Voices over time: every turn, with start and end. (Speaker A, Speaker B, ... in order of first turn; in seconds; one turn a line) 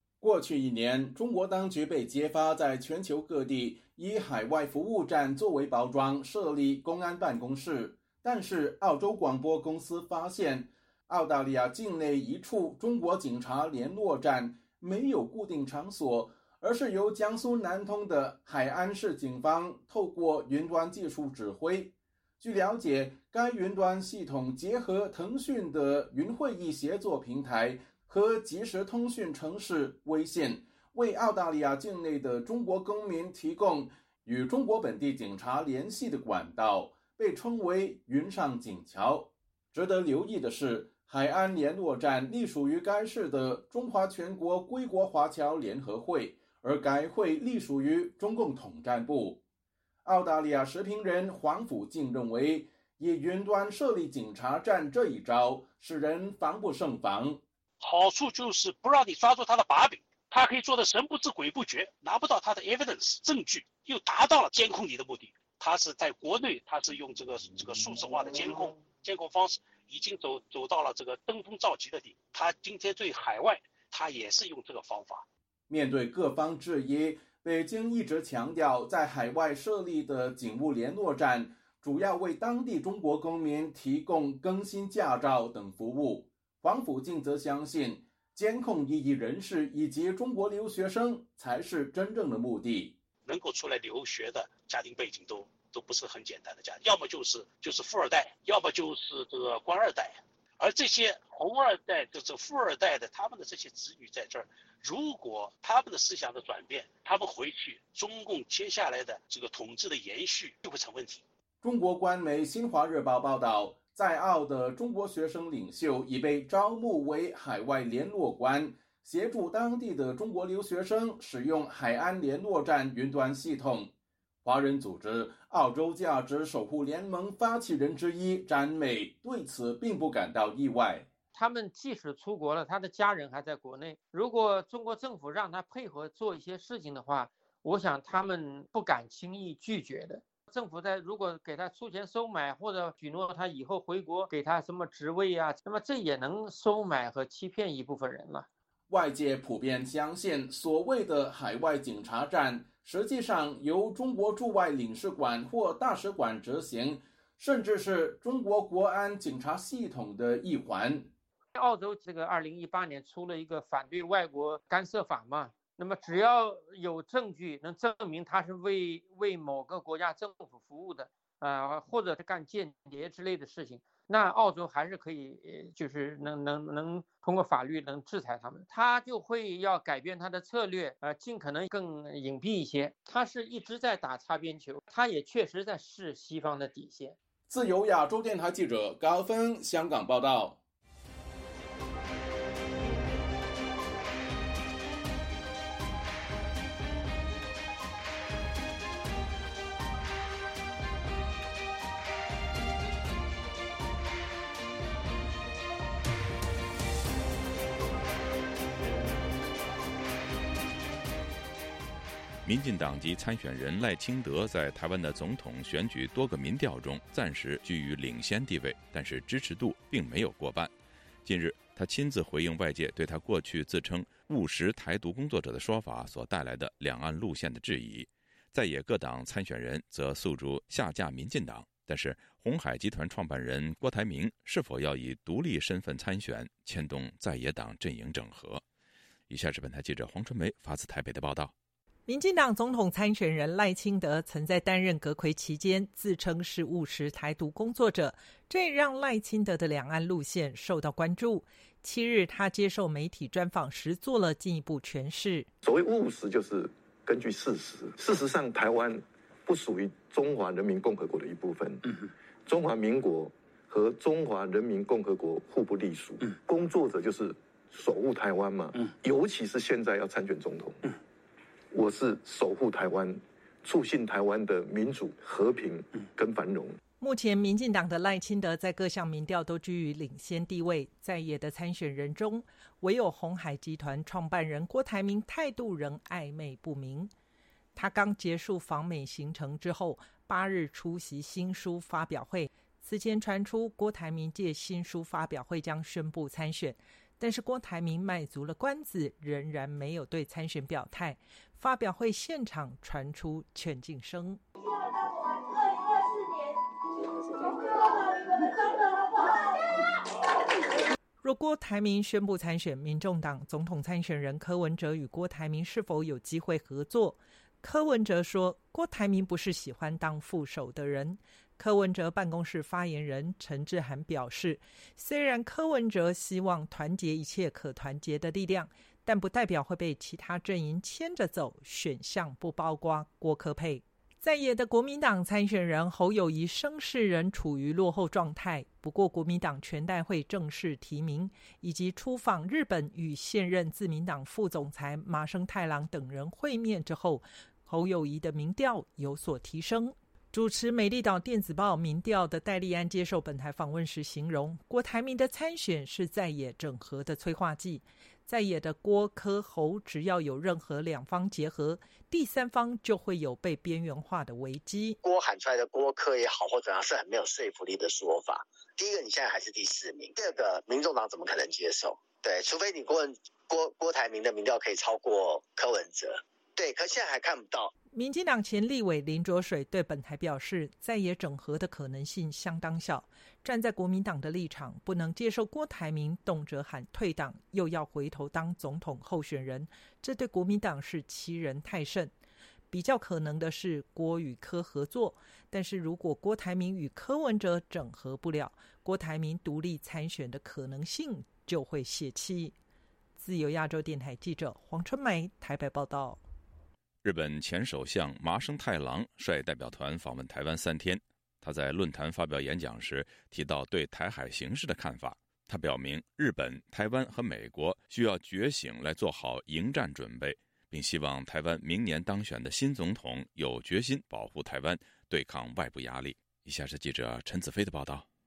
Speaker A: 0.2-49.4
Speaker A: 50.0-57.4
Speaker B: 57.8-75.2
Speaker A: 75.7-93.0
Speaker B: 93.2-111.2
Speaker A: 111.6-123.9
Speaker A: 124.4-131.1
Speaker C: 131.3-148.5
Speaker A: 148.9-161.1
Speaker C: 161.6-187.2
Speaker A: 187.5-190.6
Speaker D: 212.4-220.7
Speaker D: 221.2-238.6
Speaker D: 239.3-241.5
Speaker E: 242.1-255.5
Speaker F: 255.6-261.9
Speaker F: 262.4-270.8
Speaker F: 271.7-276.8
Speaker E: 277.0-287.1
Speaker E: 287.7-304.4
Speaker E: 311.2-365.0
Speaker G: 365.0-377.7
Speaker E: 377.9-392.1
Speaker E: 392.7-402.5
Speaker E: 403.2-406.2
Speaker D: 407.0-428.1